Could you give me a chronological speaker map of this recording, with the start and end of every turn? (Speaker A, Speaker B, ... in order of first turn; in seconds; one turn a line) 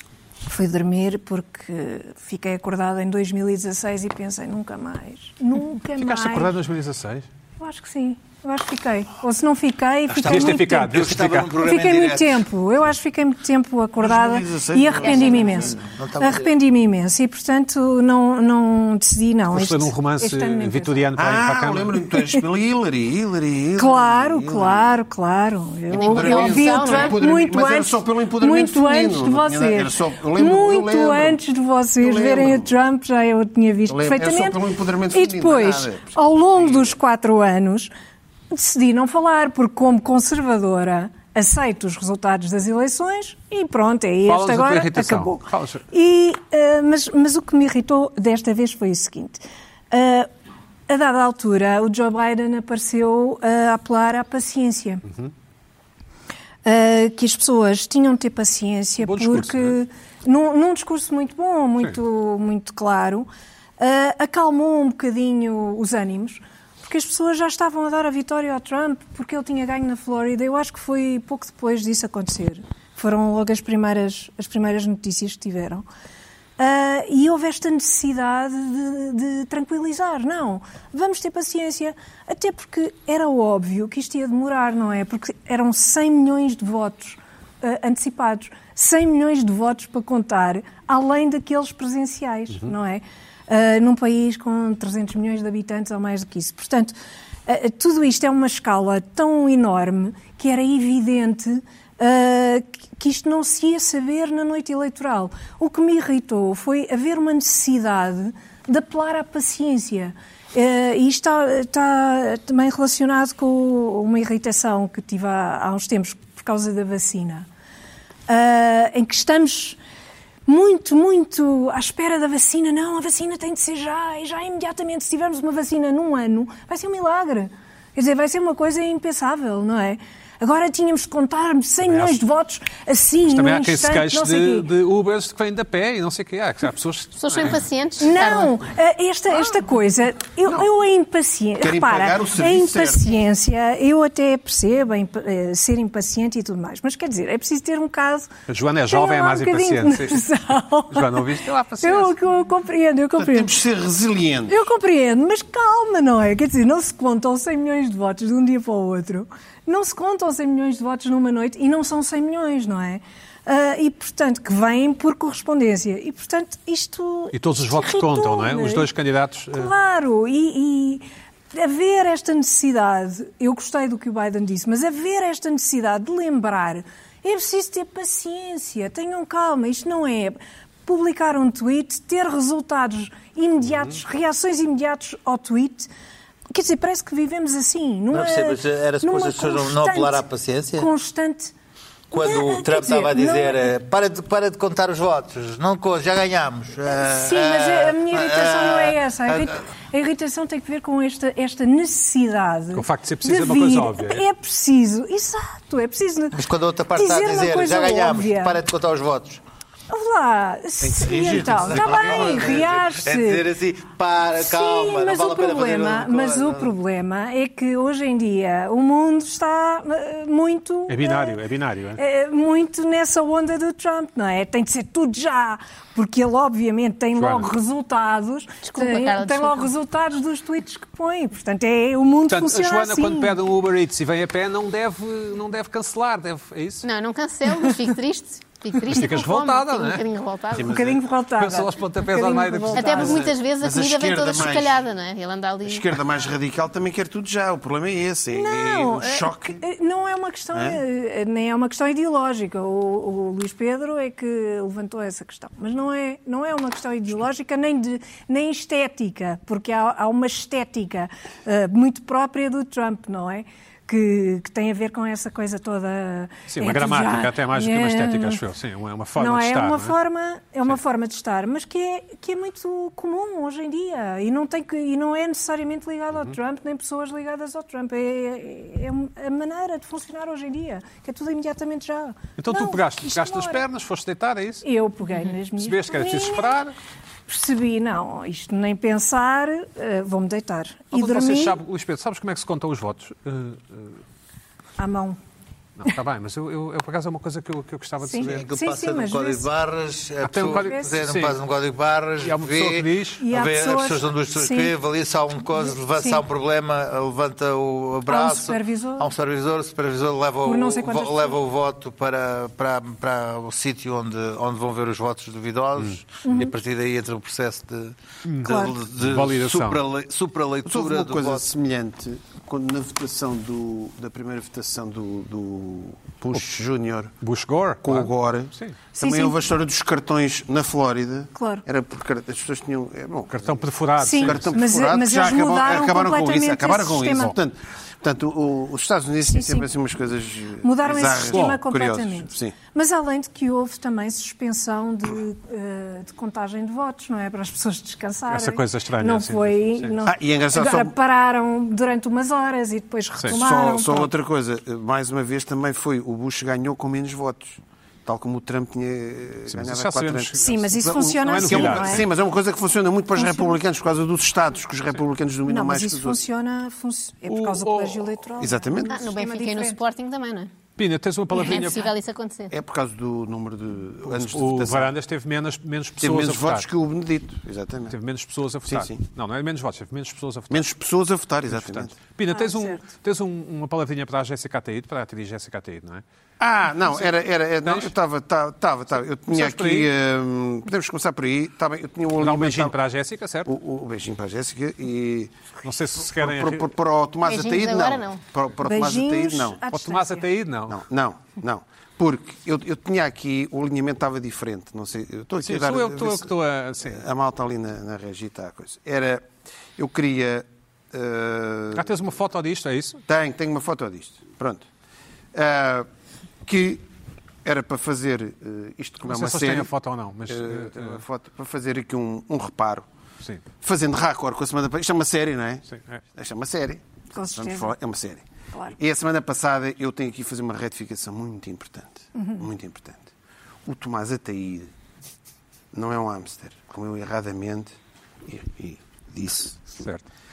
Speaker A: 0.5-6.5
Speaker B: 5.9-7.3
Speaker A: 7.6-11.0
Speaker B: 10.1-11.5
Speaker C: 10.1-12.5
Speaker A: 11.5-21.1
Speaker D: 14.0-15.8
Speaker E: 15.0-15.7
Speaker C: 15.8-16.5
Speaker B: 19.5-22.0
Speaker D: 21.1-25.0
Speaker A: 23.8-37.9
Speaker E: 25.9-27.2
Speaker D: 25.9-31.4
Speaker D: 32.0-32.7
Speaker D: 33.9-36.2
Speaker A: 38.5-50.3
Speaker B: 44.2-45.8
Speaker A: 50.9-55.0
Speaker B: 55.0-55.3
Speaker A: 56.6-75.8
Speaker B: 59.0-59.8
Speaker A: 76.6-117.5
Speaker A: 118.3-119.8
Speaker A: 120.5-134.7
Speaker B: 131.8-132.2
Speaker B: 133.3-137.6
Speaker E: 137.2-138.6
Speaker A: 138.0-148.3
Speaker D: 141.6-143.1
Speaker B: 148.5-150.2
Speaker A: 148.9-153.5
Speaker B: 150.9-152.1
Speaker D: 153.2-154.6
Speaker A: 154.5-168.9
Speaker B: 167.3-169.7
Speaker A: 169.5-185.9
Speaker B: 183.6-184.0
Speaker A: 186.5-191.5
Speaker C: 188.1-190.9
Speaker C: 192.1-199.6
Speaker A: 192.1-193.7
Speaker A: 196.9-206.4
Speaker B: 202.7-204.2
Speaker C: 206.3-209.4
Speaker A: 206.9-208.6
Speaker A: 209.9-213.5
Speaker D: 210.8-212.7
Speaker C: 211.0-216.7
Speaker A: 214.4-221.4
Speaker B: 220.9-222.0
Speaker A: 222.0-233.4
Speaker B: 227.2-227.5
Speaker E: 228.6-229.7
Speaker B: 232.3-236.8
Speaker E: 236.8-240.7
Speaker B: 238.9-240.0
Speaker D: 240.5-241.1
Speaker A: 240.6-243.2
Speaker B: 241.4-243.3
Speaker E: 242.7-245.9
Speaker D: 243.1-244.8
Speaker D: 245.7-249.6
Speaker A: 248.3-268.4
Speaker D: 250.5-250.8
Speaker B: 266.5-269.9
Speaker A: 269.1-283.6
Speaker B: 282.4-284.6
Speaker A: 284.6-286.6
Speaker B: 285.6-286.7
Speaker A: 287.3-291.6
Speaker B: 290.9-294.0
Speaker A: 294.8-295.2
Speaker B: 295.8-298.4
Speaker A: 298.0-299.5
Speaker C: 298.2-321.5
Speaker B: 300.2-301.4
Speaker A: 300.5-300.9
Speaker B: 302.2-303.2
Speaker A: 303.2-304.7
Speaker A: 305.6-306.2
Speaker A: 308.1-309.1
Speaker A: 310.4-311.4
Speaker B: 315.8-316.4
Speaker A: 316.2-316.5
Speaker B: 318.2-319.8
Speaker A: 318.4-318.7
Speaker D: 320.6-327.1
Speaker B: 327.2-328.8
Speaker D: 327.8-342.6
Speaker A: 328.9-329.4
Speaker A: 331.4-331.6
Speaker B: 333.3-334.6
Speaker A: 334.0-337.3
Speaker A: 339.3-339.7
Speaker A: 340.6-354.1
Speaker B: 341.3-341.6
Speaker B: 348.3-350.0
Speaker D: 350.1-350.9
Speaker D: 353.3-366.2
Speaker B: 359.5-362.1
Speaker A: 360.4-362.1
Speaker A: 363.1-363.6
Speaker A: 365.5-369.8
Speaker B: 367.3-368.2
Speaker D: 368.4-369.1
Speaker E: 368.9-370.5
Speaker B: 370.8-371.9
Speaker E: 371.3-372.5
Speaker D: 372.5-374.9
Speaker B: 374.0-376.7
Speaker D: 376.0-377.9
Speaker B: 377.9-380.7
Speaker D: 378.7-379.0
Speaker D: 380.5-381.9
Speaker B: 381.5-386.0
Speaker A: 382.3-382.8
Speaker D: 386.4-392.8
Speaker B: 387.6-387.9
Speaker B: 389.3-389.9
Speaker B: 392.2-393.5
Speaker D: 393.4-395.3
Speaker B: 395.6-396.7
Speaker D: 396.0-399.6
Speaker E: 397.2-398.2
Speaker A: 398.6-400.3
Speaker B: 399.7-400.8
Speaker D: 400.7-406.3
Speaker B: 405.4-407.0
Speaker D: 406.8-411.9
Speaker B: 411.7-413.0
Speaker D: 413.1-414.6
Speaker D: 415.3-415.9
Speaker D: 416.4-416.8
Speaker D: 417.4-419.7
Speaker B: 419.1-421.0
Speaker D: 420.3-422.9
Speaker D: 423.6-428.2
Speaker B: 425.7-426.0
Speaker A: 427.1-427.7
Speaker D: 428.8-433.1
Speaker A: 432.1-432.5
Speaker D: 433.6-434.7
Speaker D: 435.7-437.7
Speaker D: 438.2-439.6
Speaker B: 439.7-440.0